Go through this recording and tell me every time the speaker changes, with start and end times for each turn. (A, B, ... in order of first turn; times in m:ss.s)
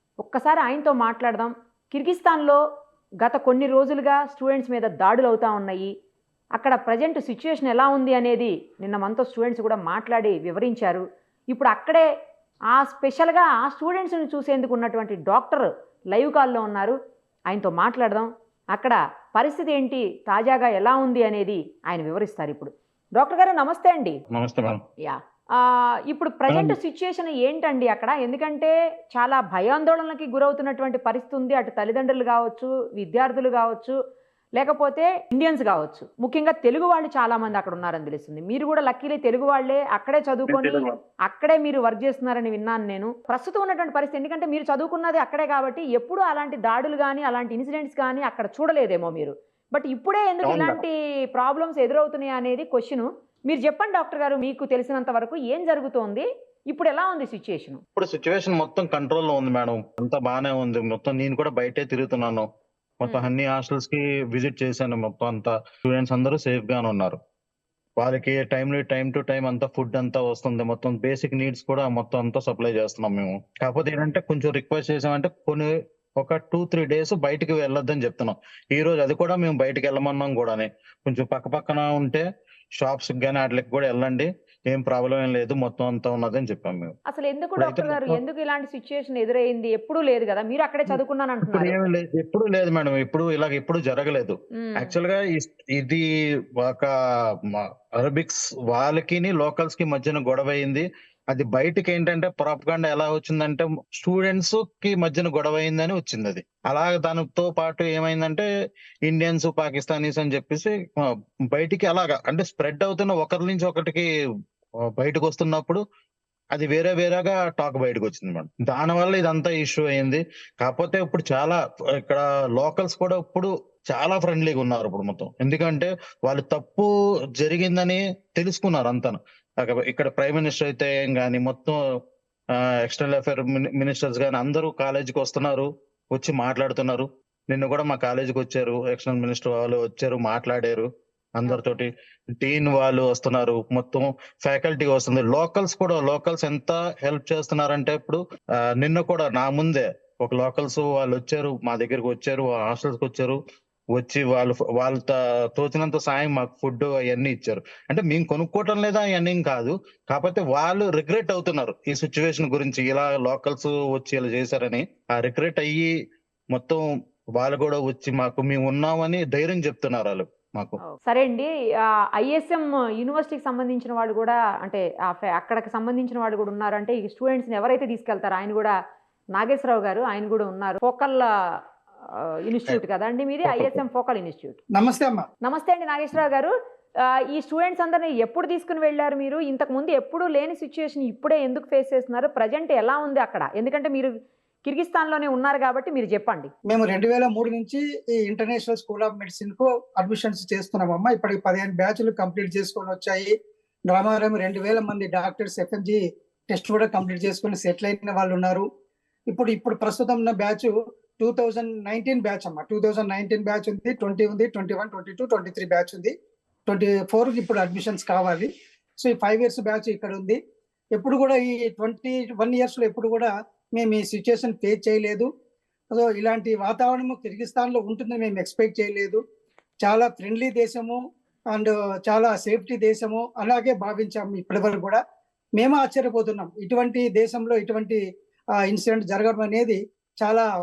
0:00.2-0:02.6 A
0:03.2-0:05.9 A
0:06.5-0:12.0 A
0:12.7-0:16.9 A
0:17.5-0:24.2 A
0:24.3-0:24.8 B
0:25.0-0:34.0 A
0:26.5-0:26.8 B
0:34.6-0:57.8 A
0:40.5-0:41.0 B
0:50.4-0:50.8 B
0:57.9-1:02.4 B
1:03.0-1:07.2 B
1:08.0-1:15.7 B
1:16.2-1:22.2 B
1:22.8-1:26.9 B
1:27.1-1:31.9 A
1:27.6-1:28.2 B
1:30.9-1:36.0 B
1:34.6-1:34.9 A
1:36.6-1:36.9 B
1:37.5-1:48.4 B
1:49.0-1:54.1 B
1:55.0-1:55.8 B
1:56.5-2:11.8 B
2:12.8-2:28.2 B
2:21.4-2:21.8 A
2:28.8-2:33.4 B
2:33.9-2:45.9 B
2:46.5-2:46.8 B
2:47.4-2:50.8 B
2:50.8-2:51.5 A
2:52.2-2:58.7 A
2:59.3-3:01.3 A
3:02.2-3:04.6 A
3:03.4-3:03.8 B
3:04.7-3:05.3 C
3:05.4-3:06.5 A
3:07.3-3:16.5 A
3:16.7-3:23.3 C
3:23.9-3:28.6 C
3:29.3-3:36.1 C
3:36.7-3:38.5 C
3:39.0-3:40.4 C
3:40.9-3:45.3 C
3:45.9-3:49.2 C
3:49.8-3:51.0 C
3:51.5-3:55.0 C
3:55.6-3:58.0 C
3:58.6-4:00.4 C